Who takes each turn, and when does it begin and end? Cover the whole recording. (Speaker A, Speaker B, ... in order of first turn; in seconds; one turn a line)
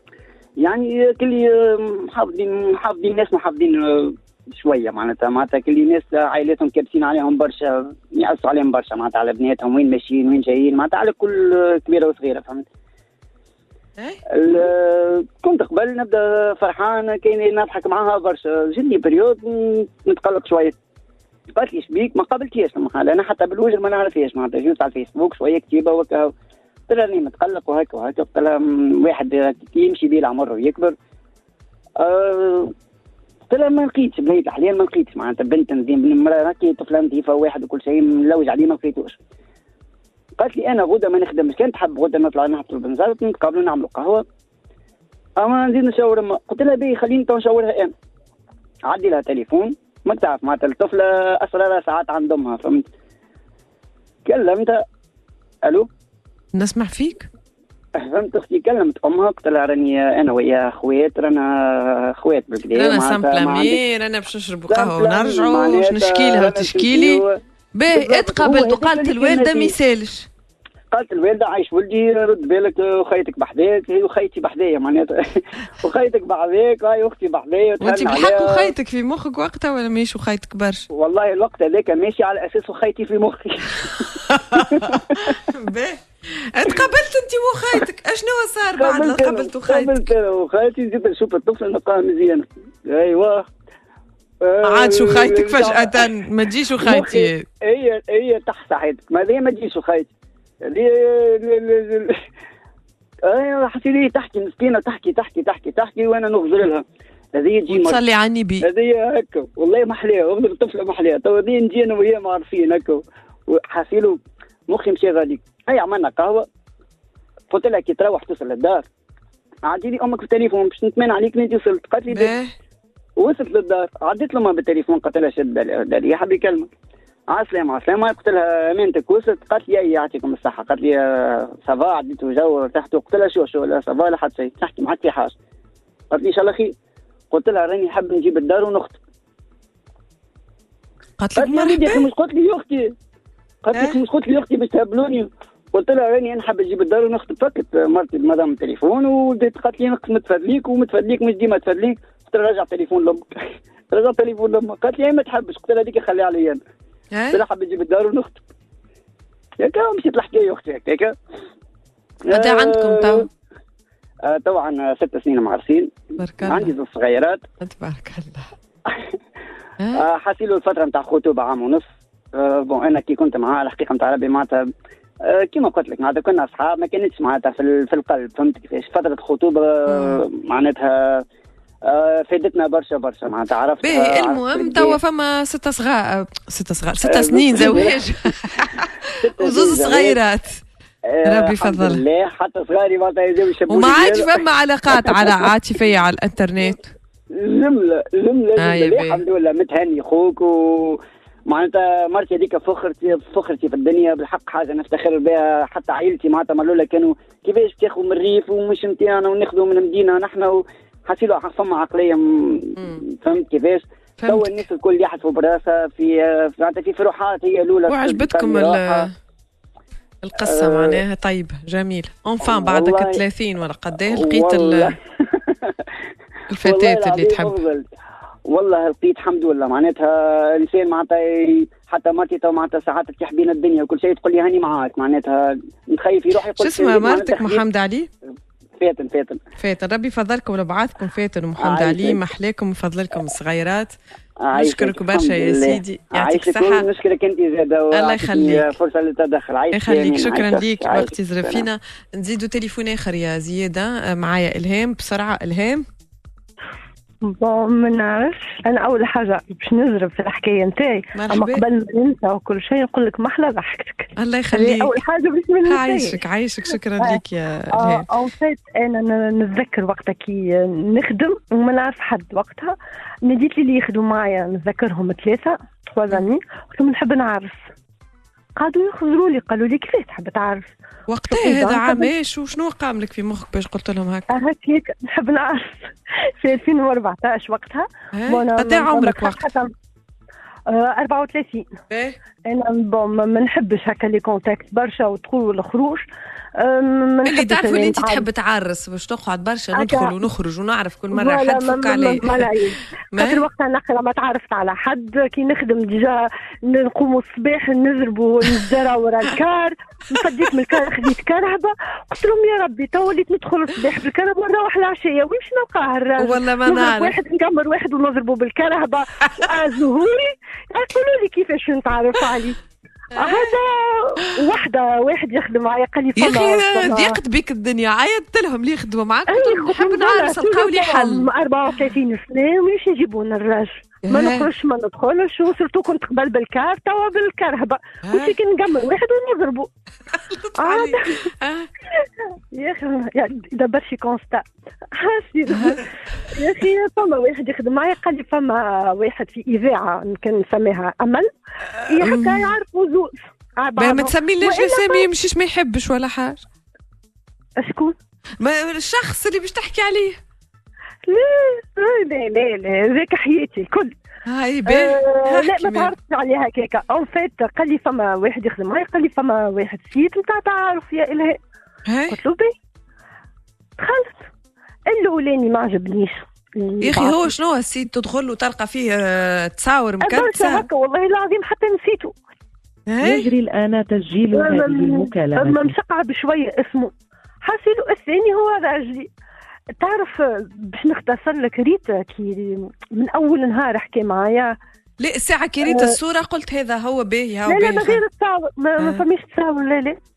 Speaker A: 0.6-12.6
Speaker A: 14.3-20.8
Speaker A: 21.5-26.3
Speaker A: 26.9-30.9
Speaker A: 32.0-32.7
Speaker A: 33.5-39.2
Speaker A: 40.4-44.2
Speaker A: 45.4-47.9
Speaker A: 48.9-52.8
Speaker A: 54.2-54.8
Speaker B: 56.5-57.3
Speaker A: 58.0-63.8
Speaker B: 62.7-67.2
Speaker A: 64.7-67.4
Speaker B: 67.7-70.3
Speaker A: 67.9-69.7
Speaker A: 70.9-78.7
Speaker B: 77.8-80.8
Speaker A: 80.9-84.0
Speaker B: 84.0-90.1
Speaker A: 84.7-85.0
Speaker A: 88.8-93.4
Speaker A: 94.4-96.1
Speaker B: 94.6-97.5
Speaker A: 96.8-100.1
Speaker A: 100.7-102.2
Speaker A: 103.2-106.8
Speaker A: 107.3-108.0
Speaker B: 107.7-108.7
Speaker A: 108.6-114.2
Speaker A: 114.7-116.5
Speaker A: 117.5-118.8
Speaker A: 119.7-122.3
Speaker B: 122.1-122.5
Speaker A: 123.2-126.7
Speaker A: 127.3-135.3
Speaker A: 136.1-136.7
Speaker A: 137.3-139.0
Speaker B: 141.2-142.1
Speaker A: 141.3-142.9
Speaker A: 143.6-153.3
Speaker B: 143.7-144.0
Speaker A: 153.9-156.6
Speaker B: 157.1-157.4
Speaker A: 157.3-158.4
Speaker A: 159.6-161.1
Speaker A: 162.3-163.3
Speaker B: 162.3-163.3
Speaker A: 164.2-167.4
Speaker B: 166.2-166.7
Speaker B: 167.6-168.5
Speaker B: 169.8-170.1
Speaker A: 169.9-174.6
Speaker A: 175.2-181.2
Speaker B: 179.9-180.2
Speaker A: 181.9-185.0
Speaker B: 183.8-190.6
Speaker A: 187.0-188.1
Speaker A: 189.2-190.2
Speaker A: 191.1-194.4
Speaker B: 191.2-192.0
Speaker B: 193.7-196.9
Speaker A: 194.9-195.5
Speaker A: 197.3-219.1
Speaker B: 198.6-199.2
Speaker B: 212.8-213.0
Speaker B: 214.2-214.7
Speaker B: 217.9-219.1
Speaker B: 220.2-224.9
Speaker A: 220.4-221.0
Speaker A: 222.4-223.2
Speaker A: 224.1-225.8
Speaker B: 226.5-227.6
Speaker A: 226.6-227.8
Speaker A: 228.5-237.6
Speaker B: 236.6-238.1
Speaker A: 238.8-239.4
Speaker B: 239.6-243.9
Speaker A: 241.6-242.2
Speaker A: 244.4-251.7
Speaker B: 244.5-246.8
Speaker B: 247.9-248.8
Speaker B: 249.7-255.8
Speaker C: 257.3-266.2
Speaker B: 261.1-261.6
Speaker B: 264.2-265.0
Speaker B: 265.6-268.0
Speaker C: 267.7-272.7
Speaker C: 273.2-277.6
Speaker C: 278.6-280.7
Speaker B: 281.1-284.3
Speaker C: 281.3-282.1
Speaker C: 284.3-289.7
Speaker B: 288.1-289.4
Speaker C: 290.7-291.7
Speaker B: 291.9-292.2
Speaker C: 292.4-296.0
Speaker C: 296.6-298.2
Speaker B: 297.2-302.5
Speaker C: 299.7-300.2
Speaker C: 301.1-322.6
Speaker B: 303.1-303.4
Speaker B: 316.2-317.1
Speaker B: 323.1-323.5
Speaker C: 323.1-327.2
Speaker B: 326.2-331.2
Speaker C: 329.3-339.7
Speaker B: 334.1-334.5
Speaker B: 338.1-338.4
Speaker B: 340.1-341.7
Speaker C: 340.6-341.3
Speaker C: 342.5-344.4
Speaker C: 344.9-351.3
Speaker B: 345.5-345.8
Speaker C: 351.9-355.1
Speaker B: 352.0-352.5
Speaker B: 353.8-356.4
Speaker C: 357.6-357.9
Speaker B: 358.4-360.2
Speaker C: 361.1-363.9
Speaker B: 364.2-365.9
Speaker C: 364.6-371.4
Speaker B: 371.9-372.2
Speaker C: 372.1-372.5
Speaker C: 373.8-374.2
Speaker C: 374.9-377.3
Speaker B: 376.8-380.6
Speaker C: 380.0-382.1
Speaker B: 382.9-383.3
Speaker D: 383.0-385.7
Speaker C: 383.9-386.9
Speaker C: 387.4-389.1
Speaker C: 389.8-394.5
Speaker B: 395.0-398.0
Speaker C: 395.6-396.0
Speaker C: 397.4-400.0